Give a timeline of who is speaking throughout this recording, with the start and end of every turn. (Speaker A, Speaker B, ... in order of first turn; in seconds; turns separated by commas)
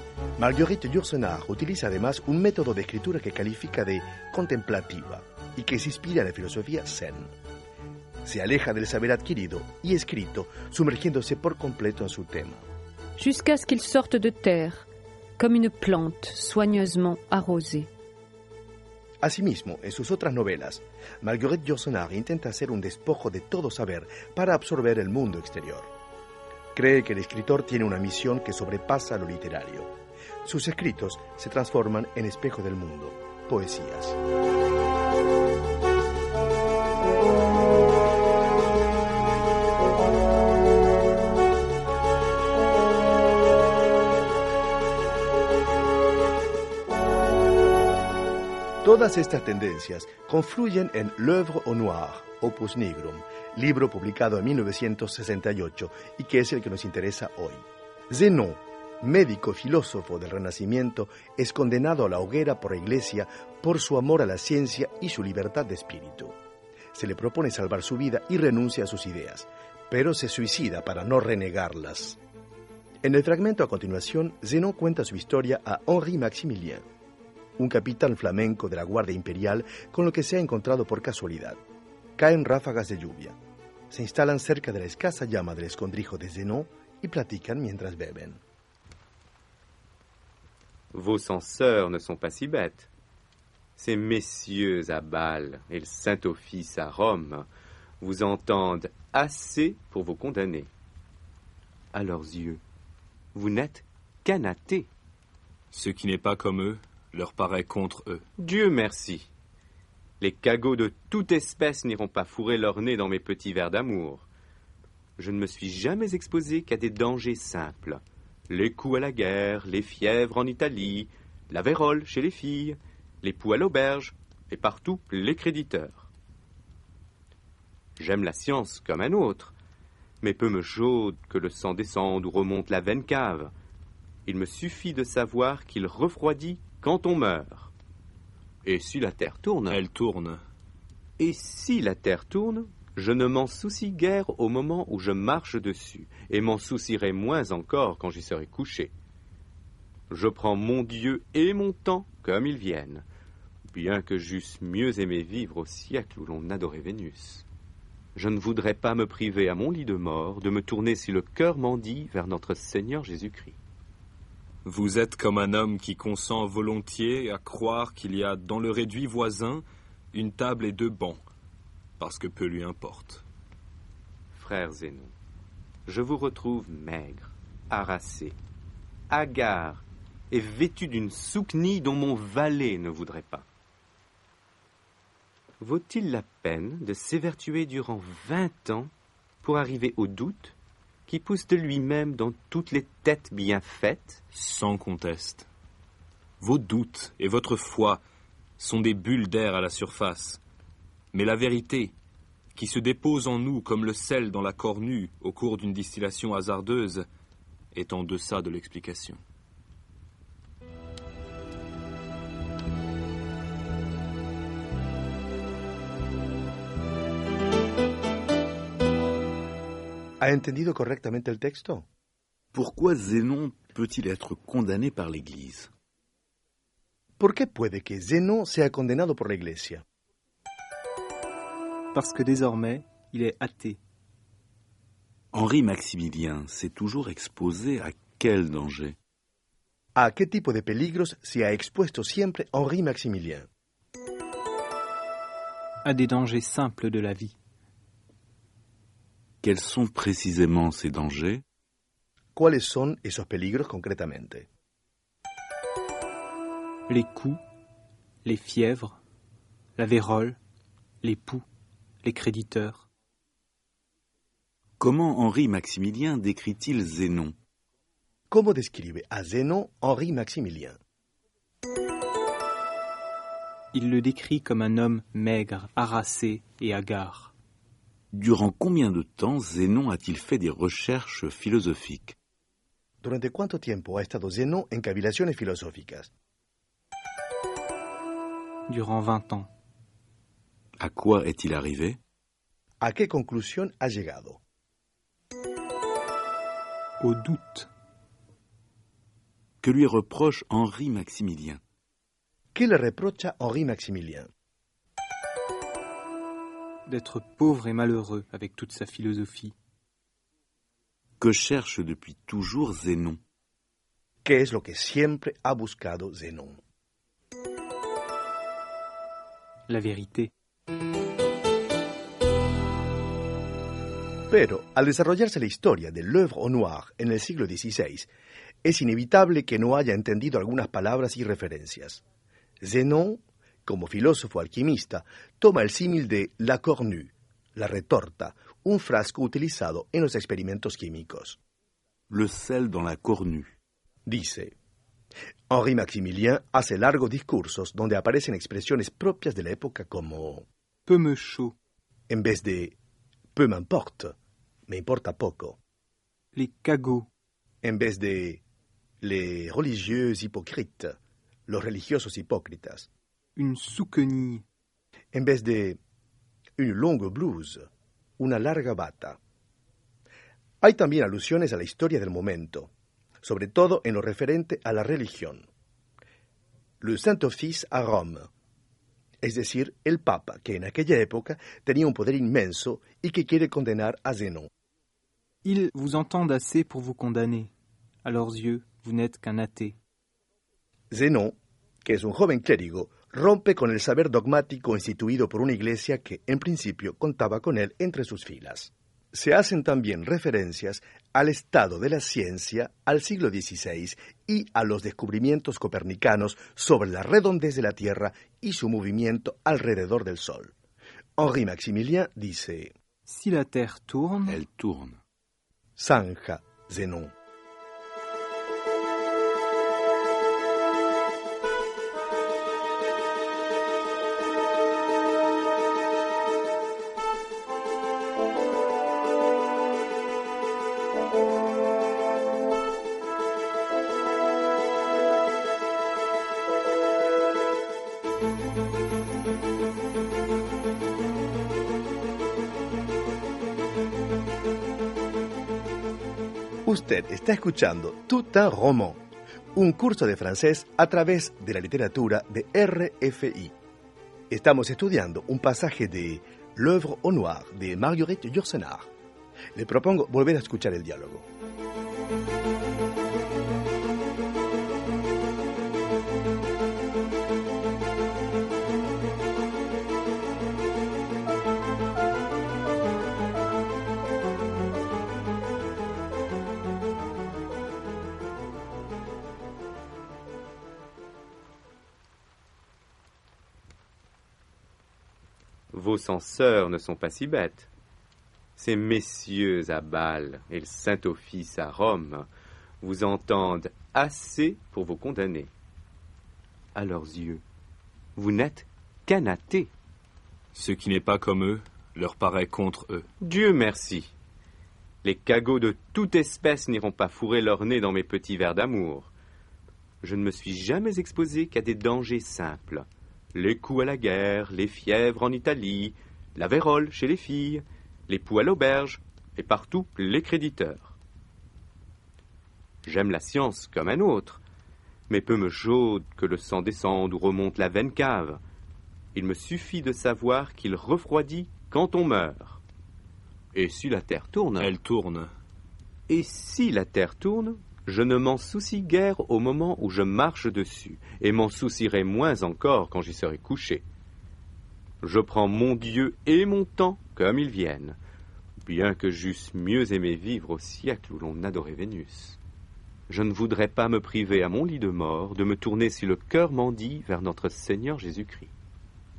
Speaker A: 0.4-7.3, Speaker A: 8.2-12.6, Speaker B: 13.2-14.8, Speaker B: 15.4-17.9, Speaker A: 19.2-25.9, Speaker A: 26.7-29.9, Speaker A: 30.4-34.2, Speaker A: 48.8-66.3, Speaker A: 66.9-72.2, Speaker A: 73.0-76.8, Speaker A: 77.6-81.6, Speaker A: 82.2-83.4, Speaker A: 83.9-88.4, Speaker C: 90.9-92.9, Speaker C: 93.8-97.5, Speaker C: 98.0-100.7, Speaker C: 101.9-102.6, Speaker C: 103.3-104.9, Speaker D: 105.7-108.2, Speaker C: 108.4-109.3, Speaker C: 110.2-114.3, Speaker C: 115.2-126.1, Speaker C: 128.0-129.5, Speaker C: 130.2-133.5, Speaker C: 134.3-137.7, Speaker C: 138.6-139.8, Speaker D: 139.7-140.4, Speaker C: 141.2-148.9, Speaker C: 150.1-153.1, Speaker C: 153.7-157.4, Speaker C: 158.2-163.6, Speaker D: 164.6-171.2, Speaker D: 172.0-173.2, Speaker C: 174.3-175.1, Speaker C: 175.9-178.3, Speaker C: 179.1-183.4, Speaker C: 185.6-188.9, Speaker C: 189.4-190.6, Speaker C: 191.1-194.2, Speaker D: 194.3-195.5, Speaker D: 196.4-198.0, Speaker D: 198.6-200.4, Speaker D: 201.1-201.9, Speaker D: 202.5-207.0, Speaker D: 207.7-209.2, Speaker A: 220.2-221.9, Speaker E: 222.5-225.7, Speaker A: 227.2-229.8, Speaker F: 231.9-233.8, Speaker E: 235.3-239.0, Speaker A: 239.9-243.5, Speaker F: 245.8-247.3, Speaker E: 249.4-251.4, Speaker A: 252.3-254.5, Speaker F: 256.9-257.4, Speaker F: 258.2-259.0, Speaker F: 259.8-260.4, Speaker F: 261.0-261.4, Speaker F: 262.0-262.9, Speaker E: 264.8-267.3, Speaker A: 268.3-270.8, Speaker F: 273.7-277.3, Speaker E: 278.1-282.2, Speaker A: 283.0-286.1, Speaker F: 288.7-289.5, Speaker E: 290.8-292.0, Speaker A: 292.8-294.4, Speaker F: 297.0-297.7, Speaker E: 299.6-301.6, Speaker A: 302.5-304.3, Speaker F: 306.9-309.5, Speaker E: 311.2-313.2, Speaker A: 314.2-316.6, Speaker F: 319.7-320.3, Speaker A: 324.3-328.1, Speaker A: 328.6-332.0, Speaker A: 332.6-341.4, Speaker E: 342.1-343.5, Speaker A: 344.1-344.5, Speaker A: 345.5-350.4, Speaker F: 350.9-351.5, Speaker A: 352.1-352.7, Speaker A: 353.3-354.1, Speaker A: 354.7-355.6, Speaker F: 356.3-357.1, Speaker A: 357.6-358.4, Speaker A: 359.0-360.9, Speaker A: 361.5-362.9, Speaker F: 363.4-364.4, Speaker A: 365.1-365.8, Speaker A: 366.6-367.6, Speaker A: 368.2-369.2, Speaker A: 370.6-372.7, Speaker A: 373.2-375.4, Speaker A: 376.8-378.3, Speaker A: 379.2-384.5, Speaker F: 385.4-387.5, Speaker F: 388.0-389.8, Speaker A: 390.9-410.5, Speaker A: 411.2-412.7, Speaker F: 413.1-414.4, Speaker E: 414.3-415.0, Speaker A: 415.8-417.1, Speaker A: 446.6-449.0, Speaker A: 449.5-453.5, Speaker A: 454.3-458.9, Speaker A: 459.5-461.2, Speaker C: 485.7-487.7, Speaker C: 488.6-492.2, Speaker C: 492.8-495.5, Speaker C: 496.8-497.4, Speaker C: 498.1-499.7, Speaker D: 500.5-503.1, Speaker C: 503.2-504.1, Speaker C: 505.0-509.1, Speaker C: 510.0-521.0, Speaker C: 522.8-524.4, Speaker C: 525.1-528.4, Speaker C: 529.1-532.6, Speaker C: 533.5-534.7, Speaker D: 534.6-535.3, Speaker C: 536.1-543.8, Speaker C: 545.0-548.0, Speaker C: 548.6-552.4, Speaker C: 553.1-558.5